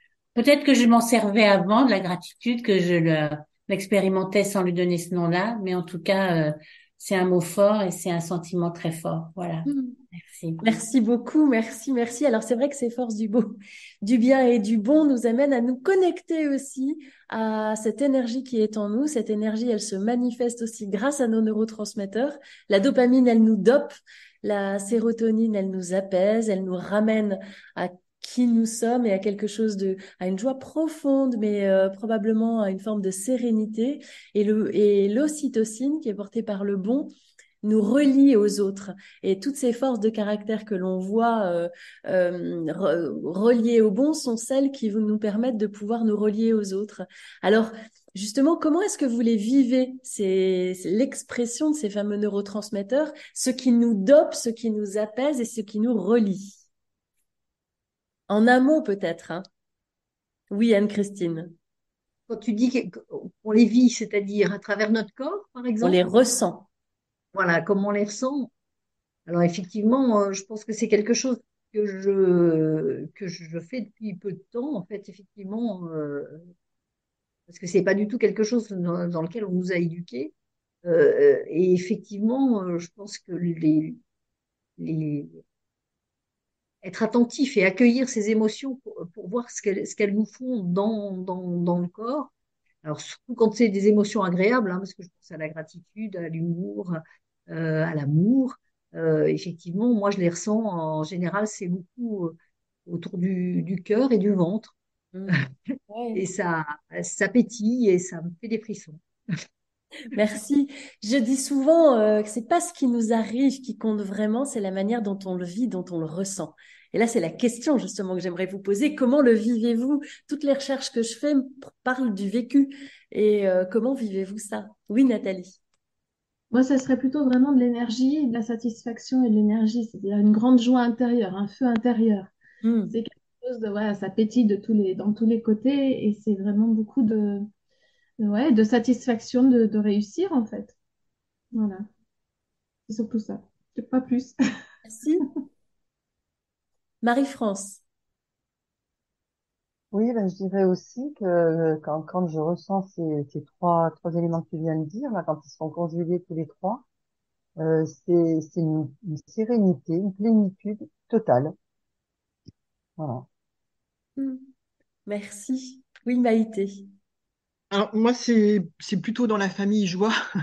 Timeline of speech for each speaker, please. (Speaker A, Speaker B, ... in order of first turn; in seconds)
Speaker A: 0.3-10.8
Speaker B: 9.7-10.0, 10.6-37.1, 37.6-56.6, 58.3-59.5, 60.5-61.5, 65.8-66.7, 105.9-106.2, 110.1-125.6, 132.6-132.9, 144.8-145.2, 147.0-147.8, 164.2-164.5, 165.1-166.9
Speaker C: 62.3-66.0, 67.3-68.5, 69.3-76.4, 77.5-80.3, 80.8-84.0, 84.8-85.4, 86.8-92.3, 92.8-102.3, 102.9-104.8, 106.1-109.0
Speaker D: 126.5-132.3, 132.9-137.5, 138.2-140.8, 141.5-141.9, 142.9-144.3
Speaker E: 149.9-156.8, 157.6-161.5, 163.0-163.3
Speaker F: 167.7-170.2